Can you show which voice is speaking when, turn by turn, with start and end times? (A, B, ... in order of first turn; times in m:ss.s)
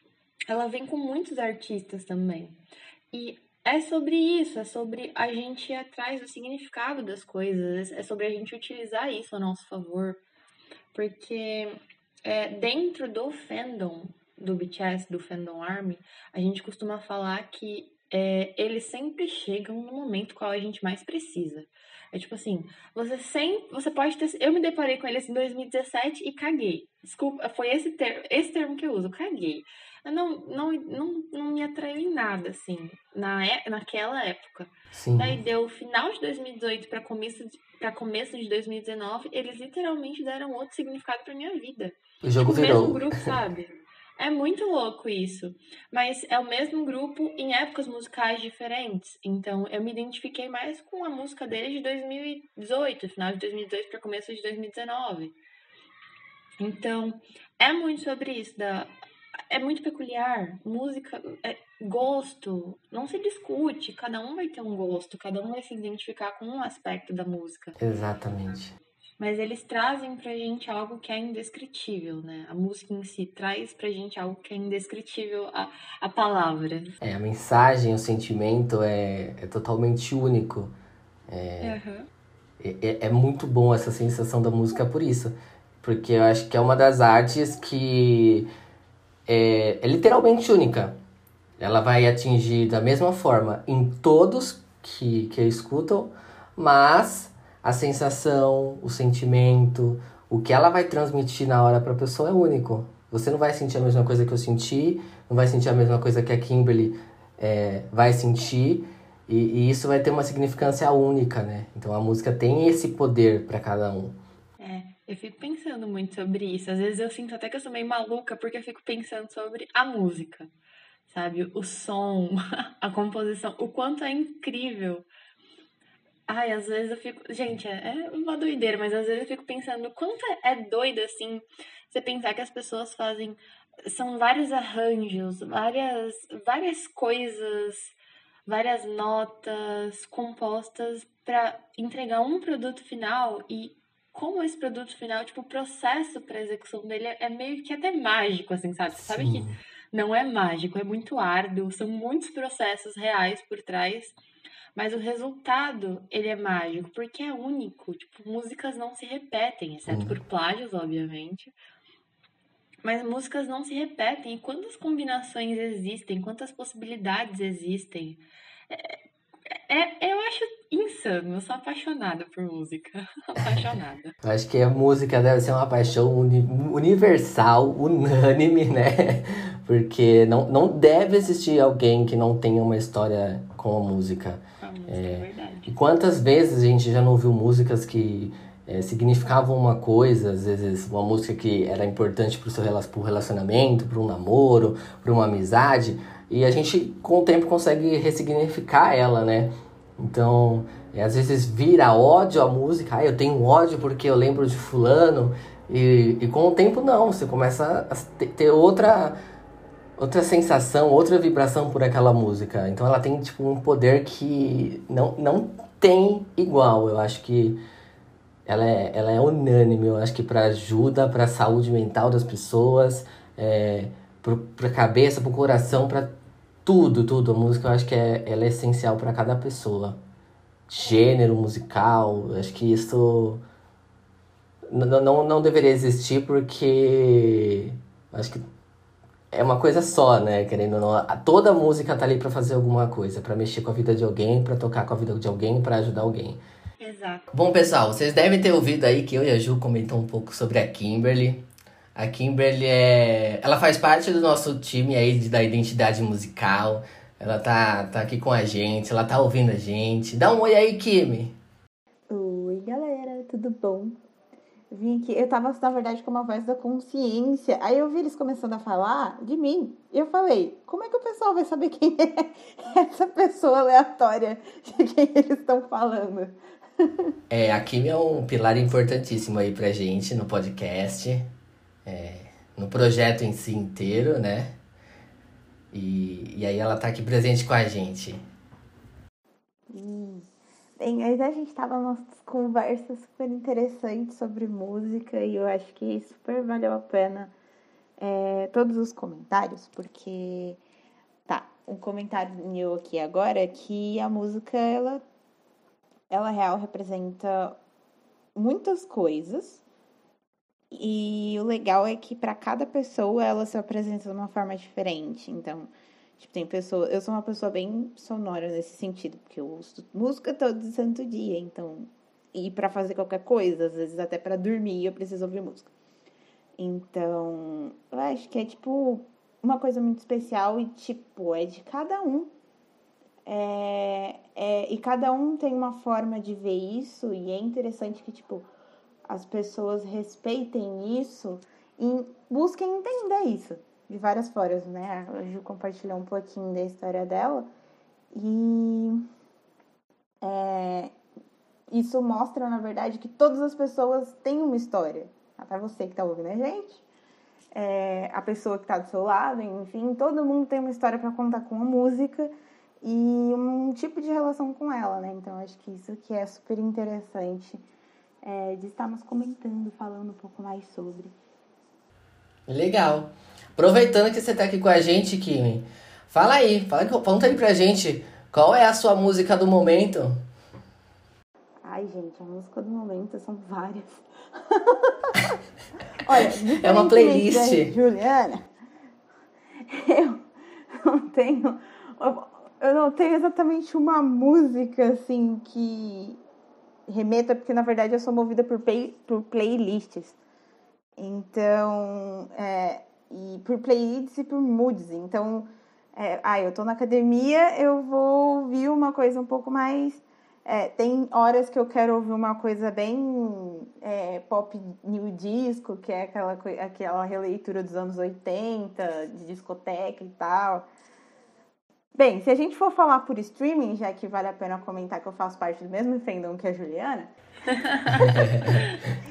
0:00.5-0:02.6 A
0:03.1-0:10.2 A
0:10.9-0:55.4 A
0:34.9-0:35.4 B
0:42.2-0:43.3 B
0:56.6-0:58.9 A
0:59.5-1:07.8 A
1:07.8-1:08.7 B
1:09.2-1:17.0 A
1:17.0-1:20.7 B
1:21.3-1:21.8 B
1:21.6-1:22.1 A
1:22.6-1:28.5 B
1:29.3-1:31.0 B
1:31.6-1:54.2 B
1:54.6-2:00.5 A
2:01.1-2:05.1 A
2:06.3-2:34.2 A
2:29.0-2:29.6 B
2:34.8-2:41.5 A
2:39.9-2:40.2 B
2:42.8-2:54.2 A
2:54.2-3:29.2 B
3:04.6-3:05.7 A
3:30.0-3:37.6 B
3:38.5-3:46.1 B
3:46.6-3:50.0 B
3:50.7-3:53.4 B
3:54.7-3:58.4 B
3:59.3-4:06.4 B
4:06.8-4:07.3 A
4:07.3-4:21.4 B
4:22.1-4:24.0 C
4:24.7-4:37.1 C
4:37.3-4:41.3 B
4:41.8-4:44.6 B
4:45.7-4:48.2 B
4:49.7-4:50.3 C
4:50.8-4:57.3 C
4:58.0-5:00.6 C
5:01.3-5:05.0 C
5:06.1-5:07.6 C
5:08.4-5:09.6 C
5:10.7-5:25.7 C
5:26.6-5:32.3 C
5:33.3-5:38.5 C
5:39.1-5:47.5 C
5:48.1-5:49.0 C
5:50.2-5:50.9 C
5:51.7-5:56.8 C
5:57.5-6:07.6 C
6:08.2-6:11.1 C
6:12.5-6:20.2 B
6:21.6-6:25.4 C
6:26.0-6:28.5 C
6:26.1-6:27.8 B
6:29.6-6:36.2 C
6:36.9-6:40.2 C
6:41.0-7:00.7 C
7:02.0-7:07.1 C
7:07.5-7:08.8 A
7:08.1-7:08.6 B